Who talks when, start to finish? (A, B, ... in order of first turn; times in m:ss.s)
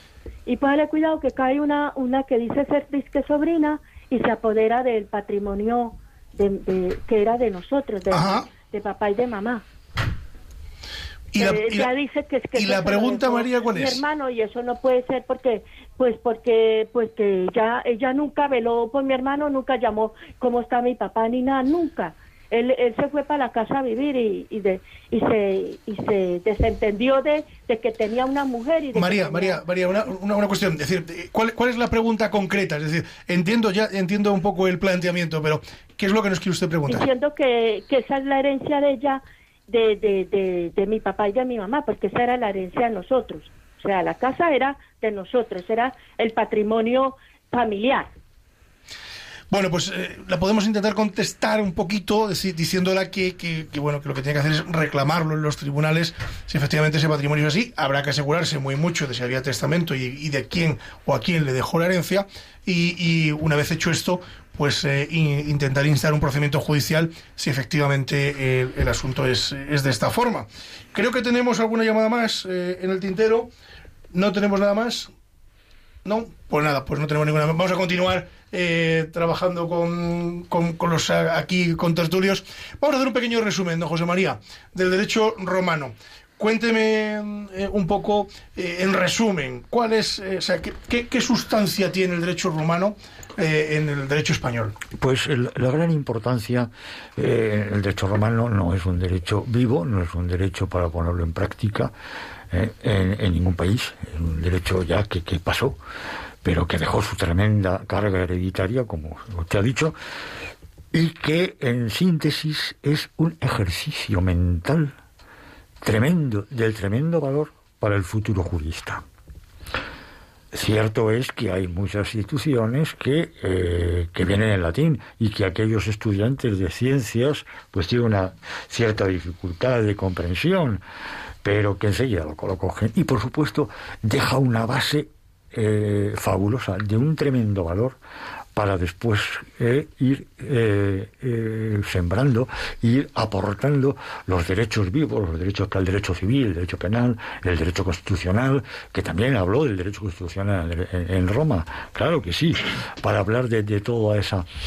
0:00.4-0:09.6 A
0:08.1-0:08.5 B
0:11.3-0:11.9 B
0:11.4-0:29.6 A
0:12.6-0:14.0 B
0:28.9-0:37.0 B
0:36.8-0:48.1 A
0:49.5-1:13.5 B
1:14.1-1:15.1 B
1:16.0-1:34.8 B
1:34.9-1:41.9 C
1:42.5-1:45.8 C
1:46.4-1:50.0 C
1:50.9-1:54.9 C
1:55.8-1:59.0 C
2:00.5-2:10.8 C
2:11.4-2:18.0 C
2:18.5-2:34.5 C